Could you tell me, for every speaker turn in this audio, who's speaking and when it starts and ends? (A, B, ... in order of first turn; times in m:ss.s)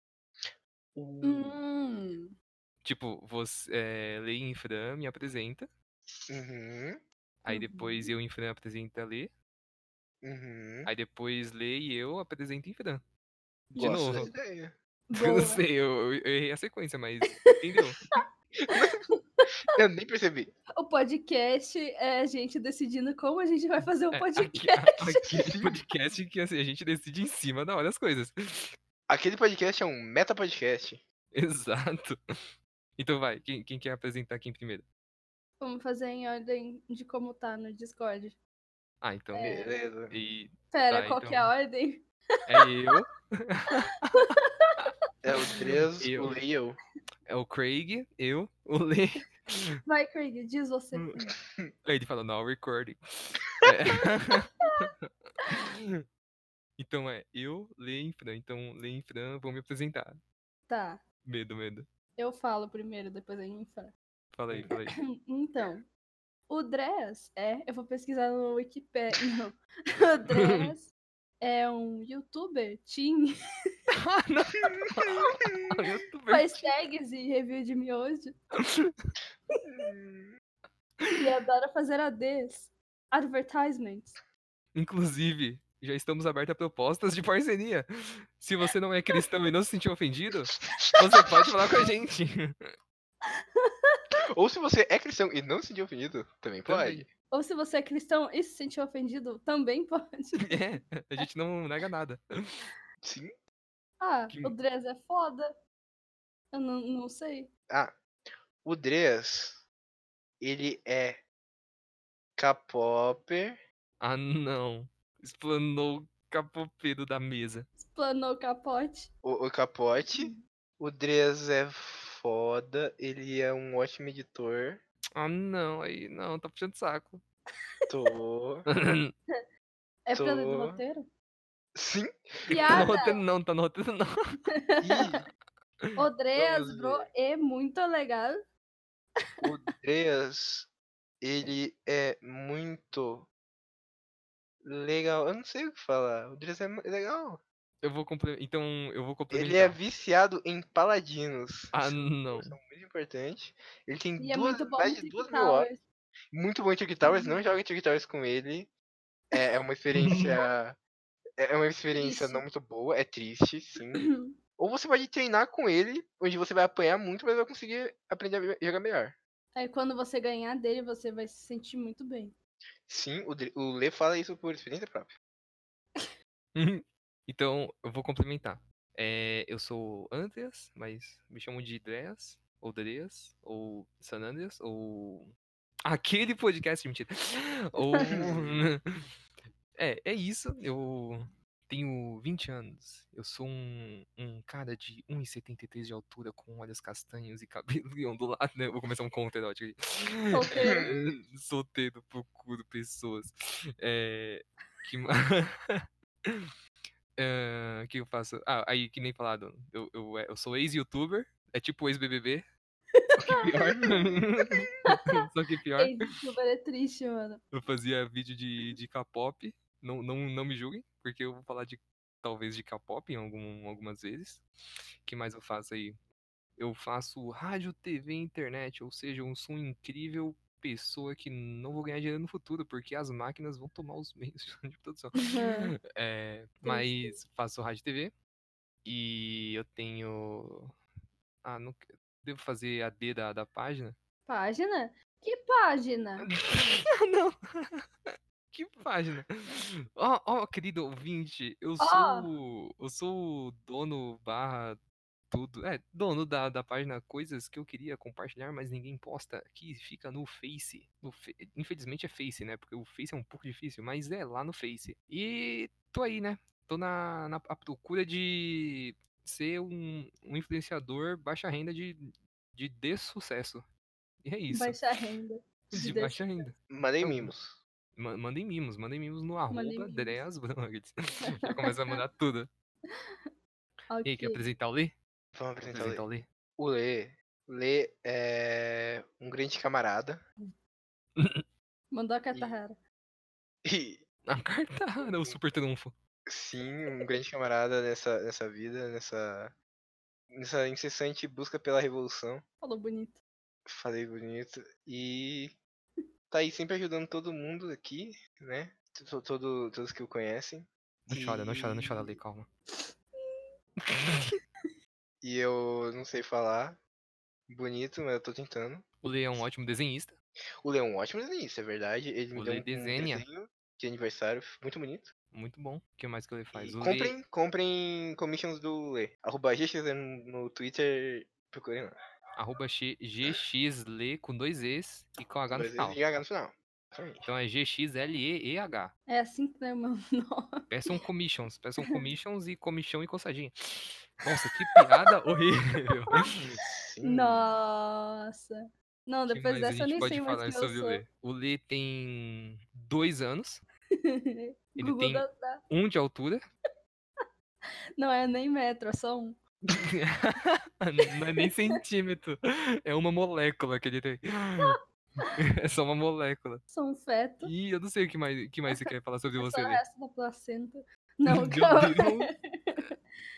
0:00.4-0:01.6 A
0:01.2-0:02.3 B
0:02.8-0:05.7 C
0:06.3-0:07.0 A
0:07.4-0:09.3 C
0:07.5-0:08.1 B
0:10.2-0:10.9 A
0:10.9-0:13.0 C
0:13.7-0:14.3 C
0:13.8-0:14.3 B
0:13.8-0:14.7 A
0:15.1-0:15.6 B
0:15.2-0:18.0 C
0:18.2-0:19.6 B
0:18.7-0:19.0 A
0:19.7-0:20.5 A
0:20.8-0:25.4 B
0:24.1-0:28.7 C
0:25.3-0:25.7 A
0:29.1-0:31.0 A
0:31.3-0:32.2 C
0:33.0-0:34.8 C
0:35.6-0:38.4 B
0:39.0-0:39.6 C
0:39.3-0:39.7 B
0:39.4-0:40.1 A
0:40.1-0:41.5 C
0:40.7-0:42.6 B
0:42.5-0:44.9 C
0:44.3-0:44.7 B
0:45.2-0:46.8 A
0:46.0-0:46.3 C
0:47.3-0:49.6 C
0:49.9-0:51.3 B
0:51.8-0:55.8 C
0:56.8-1:00.2 C
1:00.7-1:01.0 B
1:01.2-1:01.9 C
1:02.2-1:03.9 B
1:04.3-1:05.0 C
1:04.7-1:05.9 B
1:06.5-1:10.9 B
1:10.3-1:10.7 C
1:11.4-1:13.4 B
1:14.0-1:16.7 C
1:14.8-1:15.7 A
1:16.3-1:18.4 B
1:18.6-1:19.0 C
1:19.6-1:20.3 A
1:21.2-1:24.2 B
1:24.8-1:27.9 C
1:28.4-1:32.6 C
1:30.6-1:31.2 A
1:33.2-1:34.2 B
1:34.3-1:37.1 A
1:36.7-1:37.0 C
1:37.3-1:40.6 B
1:40.4-1:42.7 C
1:43.0-1:43.3 A
1:44.0-1:45.5 B
1:46.5-1:47.5 B
1:48.6-1:49.6 A
1:50.4-1:51.2 A
1:52.4-1:53.6 A
1:54.0-1:57.7 C
1:57.8-1:59.1 B
1:59.2-2:04.8 A
2:00.1-2:00.4 B
2:05.2-2:07.2 C
2:07.9-2:08.7 A
2:08.7-2:09.1 C
2:10.1-2:11.1 B
2:10.1-2:10.8 A
2:11.8-2:13.1 A
2:12.5-2:14.1 C
2:12.5-2:13.2 B
2:14.5-2:15.2 B
2:14.8-2:15.2 A
2:16.0-2:18.4 B
2:16.4-2:17.1 A
2:19.4-2:20.7 A
2:21.2-2:23.3 A
2:24.6-2:27.4 A
2:27.8-2:29.8 C
2:29.3-2:35.7 A
2:31.7-2:32.6 C
2:34.2-2:35.8 B
2:36.3-2:38.7 A
2:37.0-2:37.4 B
2:39.3-2:40.8 A
2:40.0-2:40.2 C
2:41.4-2:44.1 A
2:42.0-2:42.4 B
2:44.0-2:44.3 B
2:44.6-2:49.2 A
2:49.6-2:52.4 B
2:52.9-2:55.1 A
2:56.6-3:05.3 C
3:05.8-3:08.8 C
3:08.0-3:08.6 A
3:09.8-3:26.5 C
3:20.3-3:20.9 B
3:20.6-3:21.0 A
3:27.2-3:32.4 C
3:32.9-3:33.7 B
3:33.2-3:34.5 A
3:33.3-3:36.0 C
3:35.8-3:37.4 B
3:37.5-3:44.4 C
3:45.0-3:46.0 C
3:46.6-3:58.1 C
3:55.2-3:55.7 B
3:56.6-3:57.2 B
3:58.8-4:00.7 C
4:01.4-4:04.0 C
4:04.3-4:06.3 B
4:06.2-4:14.8 C
4:11.8-4:12.3 B
4:15.3-4:33.6 C
4:34.2-4:34.8 C
4:34.5-4:36.4 B
4:35.7-4:37.3 C
4:36.7-4:37.6 A
4:38.0-4:42.5 C
4:39.5-4:40.2 B
4:41.2-4:42.0 B
4:43.9-4:44.4 B
4:44.0-4:45.0 C
4:45.4-4:46.1 A
4:45.6-4:46.3 C
4:46.6-4:50.2 A
4:51.2-4:51.4 C
4:51.9-4:52.8 B
4:52.3-4:52.6 A
4:53.6-4:54.0 A
4:54.3-4:56.0 C
4:55.1-4:55.4 A
4:56.3-4:59.6 A
5:00.3-5:02.4 A
5:02.6-5:03.2 B
5:03.7-5:05.6 A
5:06.3-5:12.2 A
5:11.1-5:12.5 C
5:12.7-5:13.5 B
5:13.9-5:14.3 C
5:15.2-5:16.8 A
5:17.5-5:18.8 A
5:19.0-5:20.2 C
5:20.6-5:25.1 A
5:22.4-5:23.2 C
5:25.3-5:27.2 C
5:26.5-5:32.0 A
5:32.4-5:36.0 C
5:35.5-5:37.3 A
5:37.3-5:38.9 C
5:39.1-5:40.6 B
5:40.7-5:46.3 C
5:46.4-5:47.5 A
5:47.0-5:51.0 B
5:49.3-5:53.6 C
5:54.0-5:55.6 B
5:54.8-5:56.4 C
5:58.0-5:59.4 B
5:59.8-6:04.8 C
6:01.1-6:01.5 B
6:05.4-6:06.6 C
6:06.7-6:07.5 B
6:07.4-6:09.8 C
6:09.4-6:12.9 B
6:11.3-6:12.9 C